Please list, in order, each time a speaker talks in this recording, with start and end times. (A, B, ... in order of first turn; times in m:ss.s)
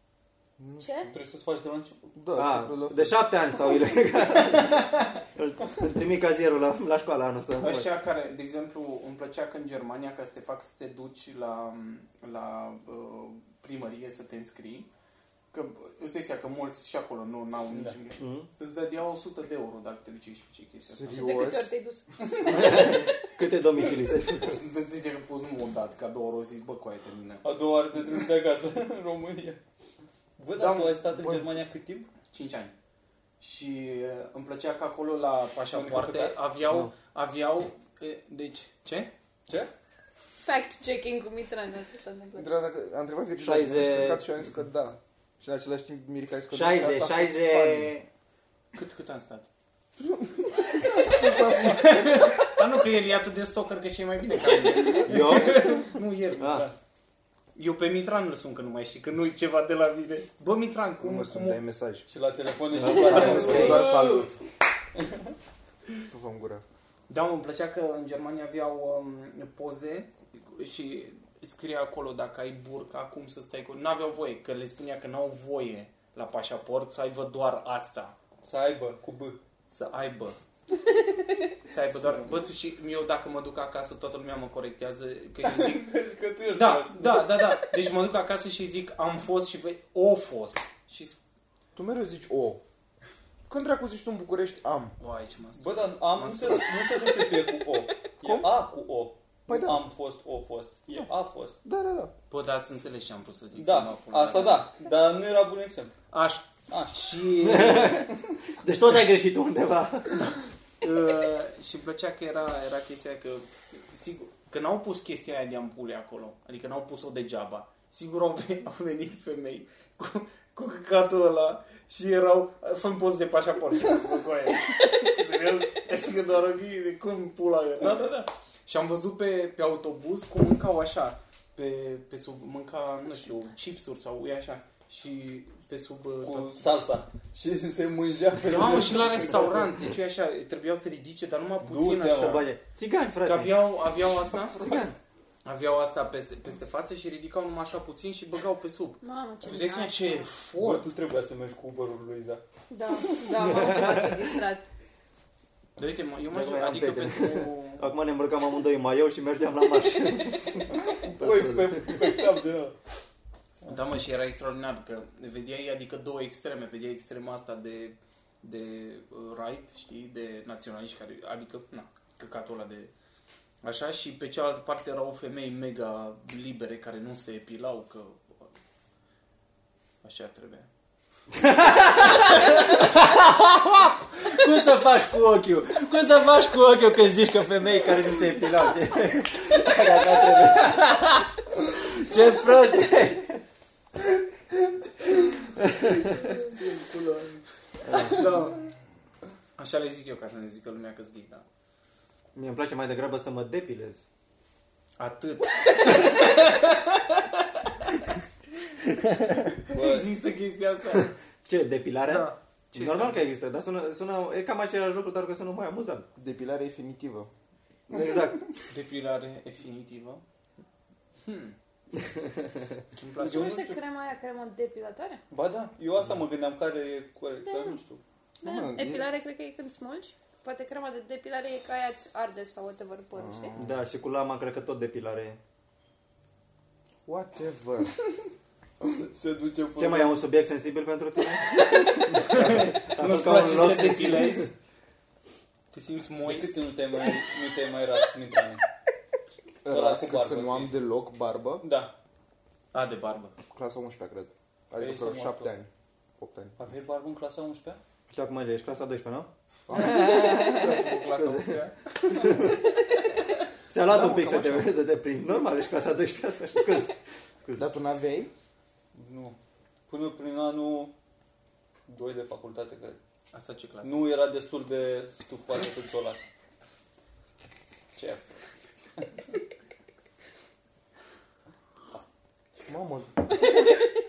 0:00.6-0:01.1 A
0:00.8-0:01.1 B
0:01.1-0:02.1 C
0:02.1-0:03.3 A
0:02.3-0:07.9 D
0:07.6-0:14.9 E
0:15.5-0:21.3 E
0:18.2-0:18.5 D
0:20.8-0:21.7 A
0:21.1-0:23.1 B
0:22.4-0:24.6 D
0:24.5-0:27.4 E
0:27.4-0:29.6 C
0:30.4-0:32.1 C
0:30.5-0:31.0 E
0:31.1-0:31.5 A
0:32.3-0:32.7 E
0:33.4-0:39.1 E
0:35.7-0:36.4 C
0:40.4-0:42.5 B
0:42.4-0:47.9 A
0:43.4-0:44.2 D
0:46.5-0:48.1 D
0:48.7-0:49.5 E
0:50.0-0:52.4 A
0:50.8-0:56.6 E
0:55.0-0:56.7 D
0:56.4-0:56.7 C
0:57.6-1:01.6 E
1:01.0-1:02.1 A
1:02.1-1:04.2 C
1:02.7-1:03.9 D
1:02.8-1:04.4 A
1:03.1-1:04.0 E
1:06.1-1:06.6 A
1:07.1-1:18.1 E
1:18.4-1:19.4 C
1:19.7-1:20.4 E
1:21.7-1:25.9 E
1:25.4-1:27.6 C
1:26.5-1:31.2 E
1:31.7-1:32.6 A
1:33.5-1:34.9 A
1:35.0-1:36.7 E
1:35.6-1:41.6 C
1:39.5-1:39.8 A
1:41.6-1:42.1 A
1:42.3-1:44.7 E
1:43.6-1:45.9 C
1:46.1-1:48.1 E
1:46.7-1:47.1 C
1:47.4-1:50.3 D
1:50.8-2:16.6 E
2:16.2-2:19.7 C
2:18.4-2:22.4 E
2:21.6-2:22.4 C
2:22.1-2:23.7 D
2:23.2-2:24.9 E
2:24.5-2:24.9 D
2:25.4-2:30.9 E
2:29.0-2:30.2 B
2:30.6-2:32.4 C
2:32.7-2:34.6 B
2:33.0-2:33.4 C
2:33.4-2:34.1 D
2:35.8-2:37.9 E
2:36.3-2:41.9 D
2:40.8-2:42.8 C
2:43.6-2:52.9 E
2:53.6-2:58.5 E
3:00.0-3:00.7 E
3:01.3-3:13.4 D
3:02.1-3:02.8 E
3:15.4-3:16.4 D
3:16.8-3:17.2 E
3:17.8-3:18.4 D
3:17.9-3:18.6 E
3:19.6-3:21.4 E
3:22.3-3:24.0 D
3:25.0-3:27.9 E
3:28.8-3:29.6 D
3:29.7-3:30.1 C
3:29.7-3:31.1 E
3:31.4-3:36.1 D
3:32.1-3:33.2 E
3:36.2-3:37.3 A
3:37.9-3:38.5 D
3:38.7-3:40.2 E
3:41.2-3:41.5 E
3:43.0-3:43.8 E
3:43.2-3:45.2 B
3:45.3-3:48.0 C
3:47.4-3:47.8 B
3:48.4-3:53.6 B
3:48.4-3:49.1 A
3:53.1-3:53.7 A
3:53.6-3:55.4 D
3:57.0-3:58.0 A
3:58.9-4:00.2 C
3:59.8-4:04.5 D
4:01.9-4:04.5 E
4:05.7-4:06.6 E
4:06.2-4:08.6 C
4:09.6-4:11.6 A
4:09.7-4:10.7 C
4:11.6-4:11.9 C
4:12.7-4:13.4 E
4:13.5-4:16.6 A
4:14.8-4:15.5 C
4:16.6-4:17.8 C
4:18.1-4:22.6 D
4:19.7-4:20.2 A
4:19.7-4:21.8 E
4:23.7-4:27.6 D
4:23.8-4:24.8 A
4:27.6-4:28.3 A
4:28.9-4:29.4 C
4:29.9-4:30.9 C
4:31.9-4:33.0 C
4:33.3-4:34.0 E
4:33.8-4:36.2 C
4:38.0-4:38.3 C
4:42.7-4:43.3 A